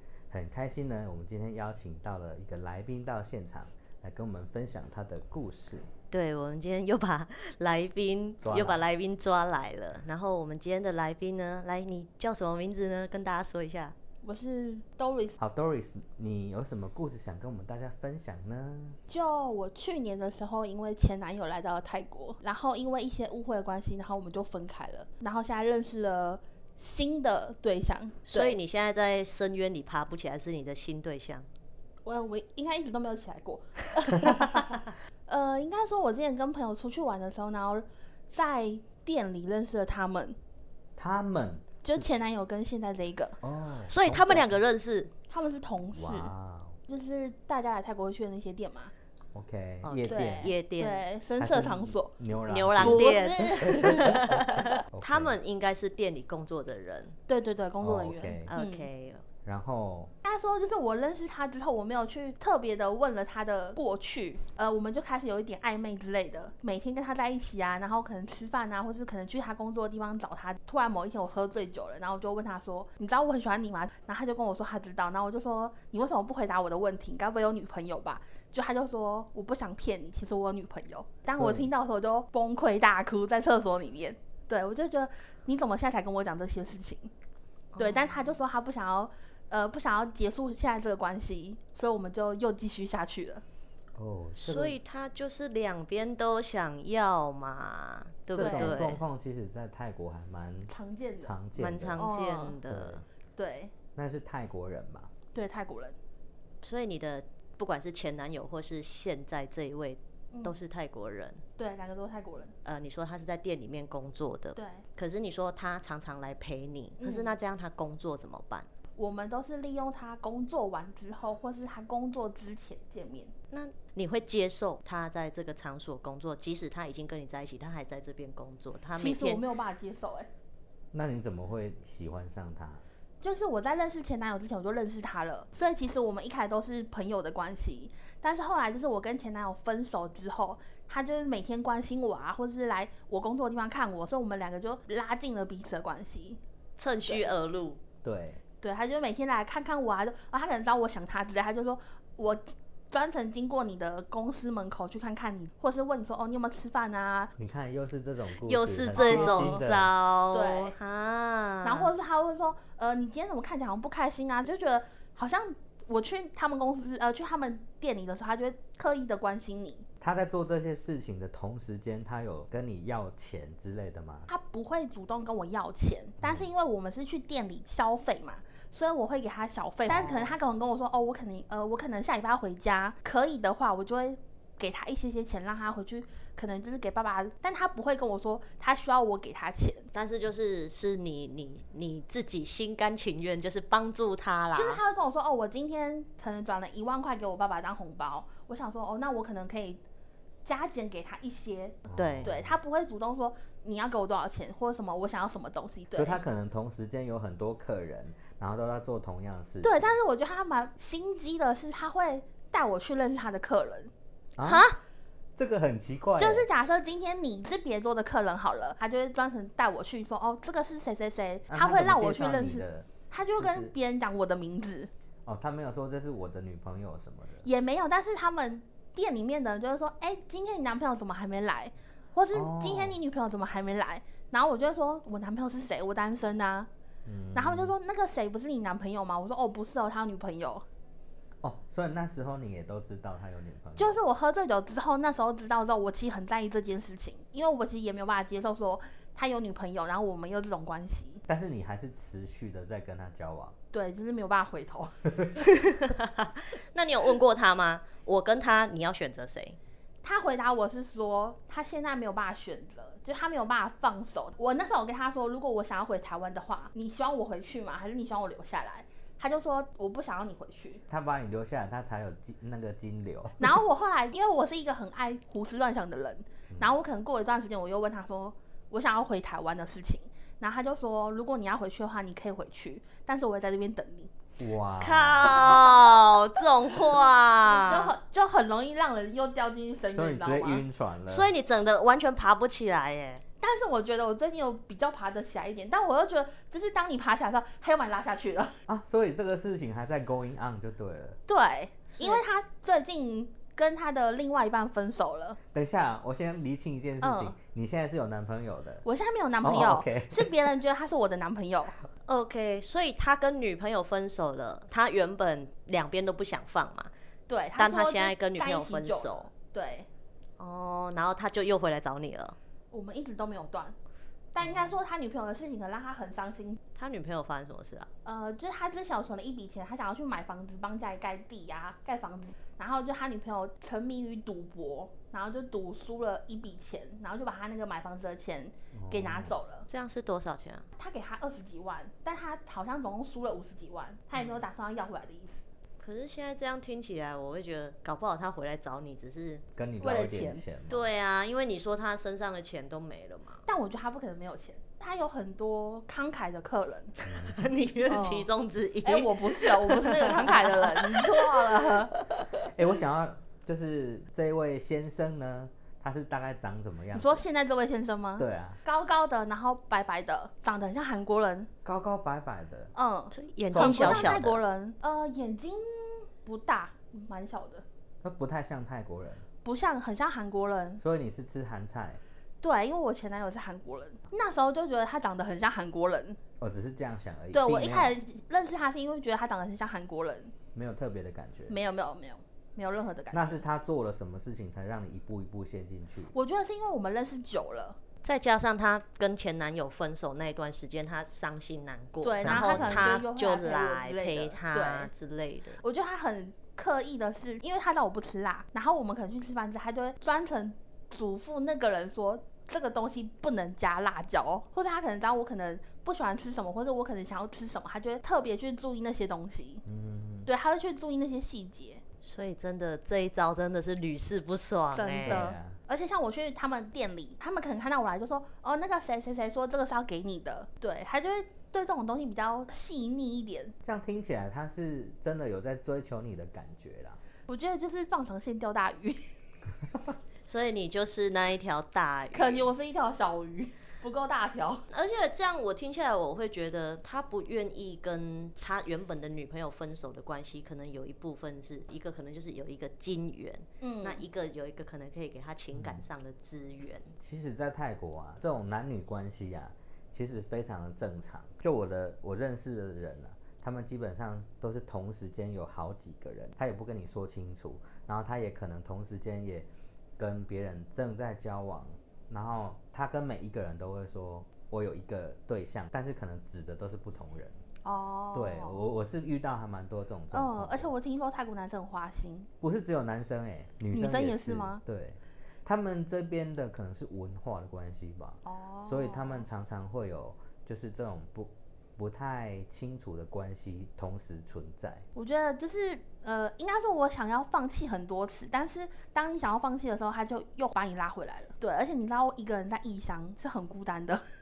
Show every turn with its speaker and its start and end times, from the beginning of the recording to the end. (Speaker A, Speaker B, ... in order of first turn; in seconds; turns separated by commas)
Speaker A: 0.3-5.9, Speaker B: 6.1-13.9, Speaker A: 8.4-8.9, Speaker C: 14.2-15.4, Speaker A: 15.4-19.0, Speaker C: 19.1-28.6, Speaker B: 28.3-31.5, Speaker C: 32.0-40.4, Speaker A: 41.0-42.1, Speaker C: 41.8-43.4, Speaker A: 43.4-44.6, Speaker B: 43.9-45.1, Speaker C: 45.3-46.3, Speaker A: 46.0-46.8, Speaker C: 46.9-48.9, Speaker A: 49.3-50.5, Speaker B: 49.8-51.0, Speaker C: 50.1-52.2, Speaker A: 51.4-55.4, Speaker B: 52.5-57.1, Speaker C: 52.8-54.6, Speaker C: 57.3-58.9, Speaker A: 57.8-58.5, Speaker B: 58.5-59.2, Speaker A: 59.4-60.1, Speaker C: 60.2-87.1, Speaker A: 81.3-81.7, Speaker B: 87.7-88.4, Speaker C: 87.8-93.4, Speaker A: 94.0-94.8, Speaker B: 94.4-99.0, Speaker A: 98.3-102.1, Speaker C: 98.4-98.9, Speaker C: 100.7-101.4, Speaker B: 101.6-103.0, Speaker C: 102.0-102.6, Speaker A: 102.7-103.0, Speaker C: 103.4-103.7, Speaker A: 104.0-105.1, Speaker C: 105.3-106.0, Speaker B: 106.6-111.4, Speaker C: 110.3-110.6, Speaker C: 111.6-112.5, Speaker B: 112.6-118.7, Speaker C: 114.5-114.8, Speaker C: 117.0-117.3, Speaker C: 119.0-123.3, Speaker B: 123.5-129.4, Speaker C: 129.0-130.3, Speaker A: 130.9-132.8, Speaker C: 133.2-146.4, Speaker B: 146.8-147.8, Speaker A: 148.0-148.4, Speaker C: 148.6-157.3, Speaker A: 157.4-159.9, Speaker B: 158.5-161.9, Speaker C: 158.9-159.7, Speaker C: 160.3-160.8, Speaker C: 161.6-169.9, Speaker A: 170.0-174.3, Speaker C: 174.3-189.9, Speaker A: 176.2-176.5, Speaker A: 179.9-180.4, Speaker B: 189.9-194.8, Speaker C: 194.6-199.8, Speaker C: 200.4-206.2, Speaker A: 201.9-202.6, Speaker B: 202.0-202.2, Speaker A: 205.9-210.0, Speaker C: 209.6-213.9, Speaker A: 214.4-214.7, Speaker B: 214.4-214.8, Speaker A: 215.4-216.5, Speaker C: 216.2-224.9, Speaker A: 221.5-223.7, Speaker A: 225.2-227.4, Speaker C: 227.4-236.7, Speaker A: 232.3-233.0, Speaker A: 237.1-237.7, Speaker C: 237.3-240.7, Speaker A: 241.4-244.0, Speaker C: 243.8-251.2, Speaker A: 251.3-253.6, Speaker C: 253.7-254.9, Speaker B: 255.4-259.6, Speaker C: 260.0-270.8, Speaker A: 270.9-273.6, Speaker C: 273.4-284.1, Speaker A: 276.5-276.8, Speaker A: 284.4-285.6, Speaker B: 284.8-287.9, Speaker C: 287.4-290.6, Speaker A: 289.9-291.3, Speaker B: 291.1-293.2, Speaker C: 293.4-298.6, Speaker A: 298.7-301.2, Speaker C: 301.3-305.4, Speaker B: 302.0-302.2, Speaker A: 305.5-308.9, Speaker C: 307.0-307.4, Speaker C: 308.8-311.8, Speaker A: 309.4-310.4, Speaker B: 312.1-316.9, Speaker C: 317.3-319.9, Speaker B: 317.6-319.3, Speaker B: 320.4-322.4, Speaker C: 322.7-323.8, Speaker C: 324.4-326.6, Speaker B: 324.4-324.7, Speaker B: 326.8-327.9, Speaker C: 328.1-339.7, Speaker A: 338.7-339.4, Speaker B: 339.7-340.6, Speaker C: 340.8-345.4, Speaker B: 345.8-349.4, Speaker A: 349.6-350.9, Speaker C: 349.8-350.4, Speaker B: 350.7-353.4, Speaker C: 353.4-357.0, Speaker A: 357.1-357.4, Speaker B: 357.1-361.8, Speaker C: 357.9-358.3, Speaker C: 358.8-362.5, Speaker A: 362.4-367.2, Speaker C: 366.9-371.5, Speaker A: 368.2-368.6, Speaker A: 371.6-372.7, Speaker C: 372.8-377.6, Speaker B: 373.2-374.4, Speaker A: 373.5-374.2, Speaker A: 378.0-379.2, Speaker C: 379.4-380.8, Speaker A: 380.8-382.0, Speaker C: 382.4-386.2, Speaker A: 386.4-387.9, Speaker C: 387.3-390.3, Speaker A: 390.5-391.6, Speaker C: 391.5-393.4, Speaker A: 393.1-396.1, Speaker C: 396.1-397.8, Speaker B: 398.0-405.6, Speaker C: 402.0-404.9, Speaker A: 402.2-403.0, Speaker C: 405.6-419.6, Speaker A: 419.7-420.3, Speaker C: 420.2-421.8, Speaker B: 422.0-425.1, Speaker C: 424.7-433.6, Speaker A: 425.0-425.6, Speaker A: 433.6-437.0, Speaker C: 437.3-439.1, Speaker B: 440.2-442.5, Speaker C: 442.1-444.7, Speaker B: 444.7-456.9, Speaker C: 453.6-454.1, Speaker A: 455.5-455.8, Speaker A: 457.0-477.4, Speaker C: 477.6-478.7, Speaker A: 478.1-480.7, Speaker C: 480.1-482.3, Speaker A: 482.4-494.8, Speaker C: 483.7-484.6, Speaker C: 488.2-489.2, Speaker C: 494.9-504.0